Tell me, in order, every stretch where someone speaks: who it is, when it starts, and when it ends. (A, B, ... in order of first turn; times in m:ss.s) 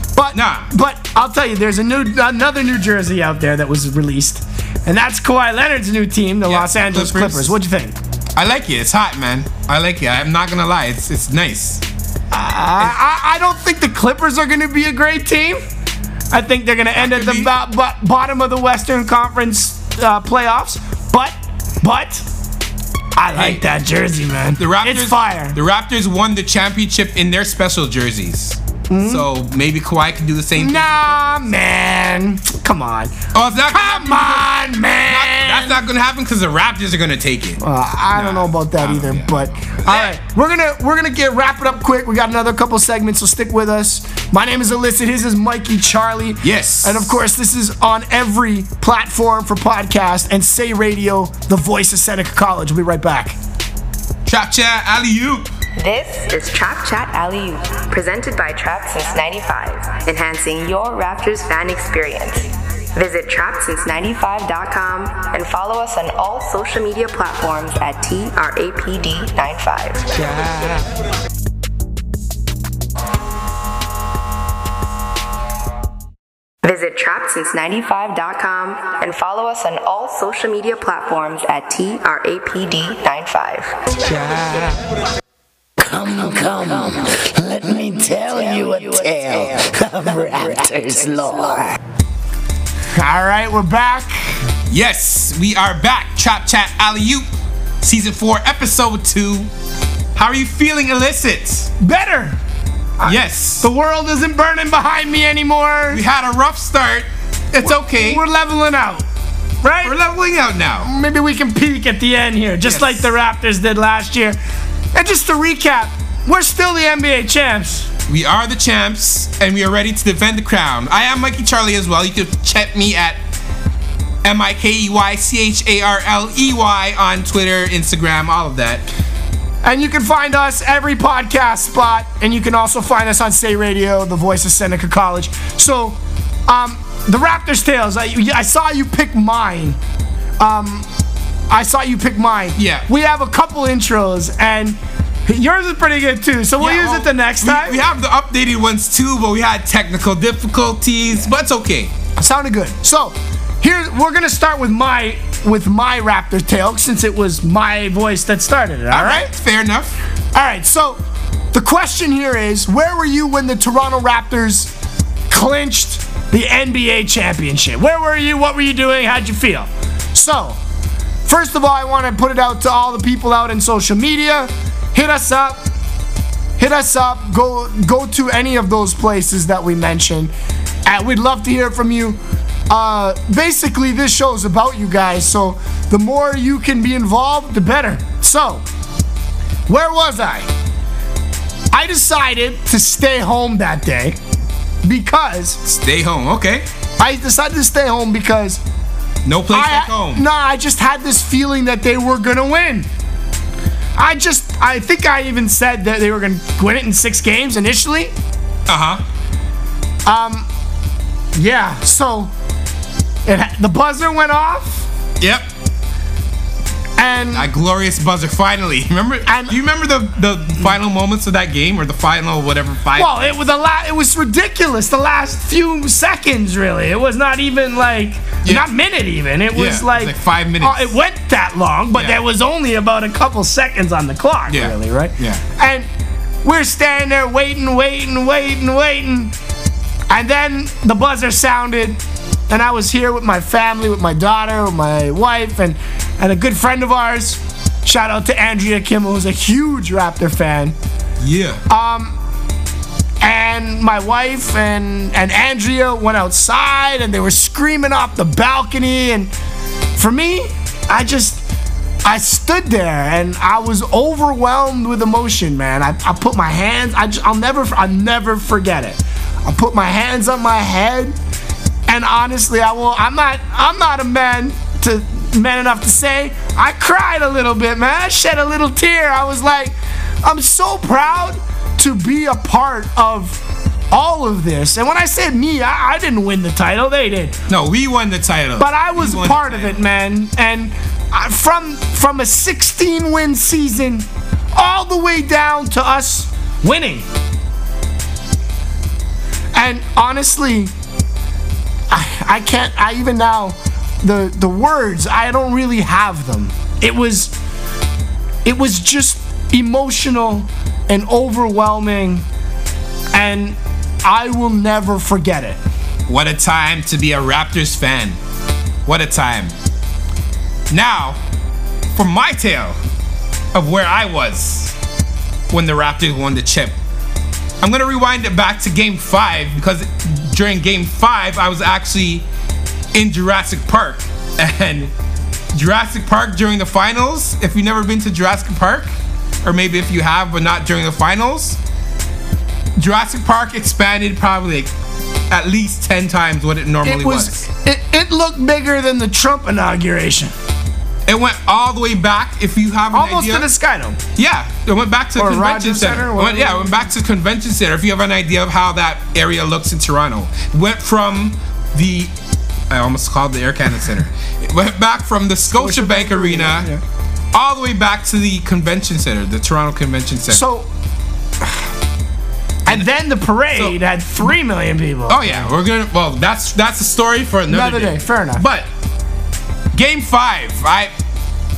0:00.2-0:08.0 A
0:00.3-0:00.7 B
0:06.4-0:07.5 B
0:08.4-0:11.8 B
0:12.3-0:15.6 A
0:16.3-0:22.2 A
0:16.9-0:17.5 B
0:23.2-0:25.6 A
0:23.4-0:23.6 B
0:24.6-0:31.4 B
0:28.9-0:29.2 A
0:30.6-0:33.2 A
0:33.3-0:37.6 B
0:33.7-0:35.8 A
0:37.6-0:53.4 A
0:38.1-0:40.1 B
0:46.4-0:47.2 B
0:54.2-0:55.5 B
0:55.8-1:10.2 C
1:16.6-1:23.8 C
1:24.2-1:24.7 D
1:25.8-1:31.8 D
1:32.9-1:34.4 A
1:34.7-1:37.3 B
1:37.8-1:39.5 B
1:40.1-1:41.7 B
1:41.8-1:42.4 A
1:43.0-1:46.0 A
1:43.0-1:43.7 B
1:45.9-1:48.2 B
1:47.6-1:49.0 A
1:49.6-1:49.9 A
1:49.8-1:50.9 B
1:50.8-1:54.4 A
1:52.6-1:53.1 B
1:54.9-1:57.9 A
1:58.1-2:03.2 B
2:04.2-2:08.8 B
2:09.6-2:19.8 A
2:20.4-2:20.9 A
2:21.5-2:27.8 A
2:22.6-2:22.8 B
2:26.6-2:31.9 B
2:32.2-2:39.3 A
2:38.9-2:40.0 B
2:40.3-2:41.0 A
2:41.5-2:44.7 A
2:45.3-2:50.6 A
2:51.2-2:55.6 A
2:56.6-3:00.3 A
3:00.8-3:08.6 A
3:09.7-3:10.5 A
3:11.7-3:14.2 A
3:14.8-3:15.6 A
3:15.6-3:16.6 B
3:17.0-3:18.6 A
3:19.2-3:20.2 B
3:19.5-3:22.9 A
3:24.0-3:28.1 A
3:28.7-3:29.0 B
3:30.0-3:30.4 A
3:31.3-3:32.3 A
3:33.2-3:34.9 A
3:35.2-3:35.5 B
3:37.0-3:37.5 A
3:37.3-3:43.3 B
3:39.2-3:39.6 A
3:43.0-3:55.9 A
3:49.5-3:50.9 B
3:51.9-3:52.2 B
3:54.5-3:55.4 B
3:56.4-3:59.3 A
4:00.1-4:10.8 A
4:11.2-4:11.6 B
4:11.7-4:12.1 A
4:13.2-4:19.3 A
4:20.0-4:21.4 A
4:22.0-4:31.1 A
4:31.9-4:43.4 A
4:43.9-4:47.4 A
4:47.5-4:49.8 B
4:48.6-4:57.1 A
4:59.5-5:00.7 A
5:01.9-5:07.3 A
5:08.4-5:12.2 A
5:13.1-5:15.6 A
5:16.1-5:18.2 B
5:18.8-5:19.5 B
5:20.7-5:21.2 B
5:21.9-5:22.8 B
5:23.5-5:24.7 B
5:25.5-5:26.8 B
5:27.6-5:32.2 B
5:32.9-5:34.9 B
5:35.5-5:38.9 B
5:39.4-5:41.6 B
5:42.8-5:44.7 B
5:45.3-5:47.4 B
5:46.8-5:50.3 A
5:51.1-5:53.5 B
5:52.9-5:54.0 A
5:54.2-6:02.1 B
5:55.2-5:56.9 A
6:02.7-6:06.7 B
6:05.5-6:06.8 A
6:07.3-6:10.4 B
6:10.3-6:10.7 A
6:12.6-6:15.5 A
6:15.1-6:18.7 B
6:17.5-6:18.4 A
6:19.7-6:20.9 B